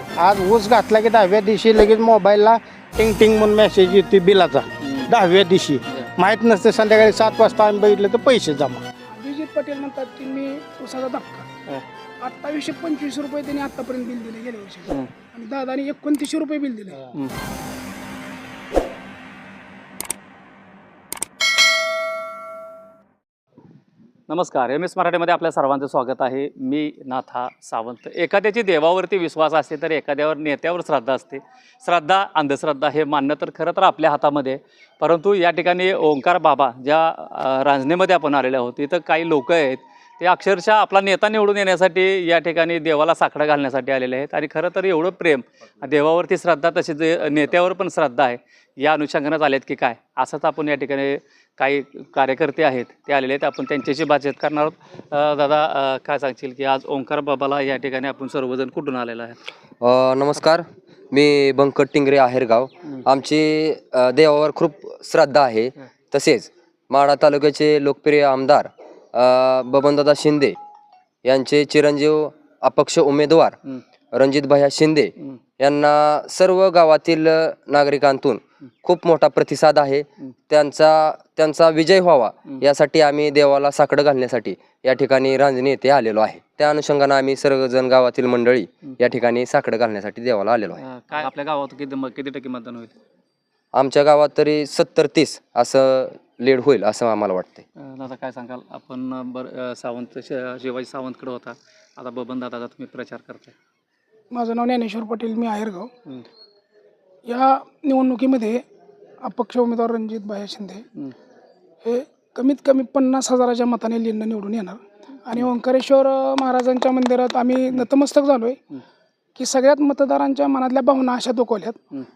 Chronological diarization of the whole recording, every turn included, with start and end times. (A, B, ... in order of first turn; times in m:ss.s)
0:00.2-0:08.8 A
0:04.8-0:05.1 B
0:09.1-0:11.4 C
0:12.2-0:17.0 C
0:17.0-0:17.3 B
0:24.3-0:59.4 B
0:59.8-1:10.5 D
1:11.2-1:13.6 D
1:14.1-1:30.8 D
1:30.8-1:32.9 B
1:33.7-1:37.6 D
1:37.9-1:43.5 B
1:44.3-1:45.9 C
1:47.3-1:48.6 C
1:49.2-1:50.8 C
1:51.8-1:58.6 C
1:59.4-2:01.8 C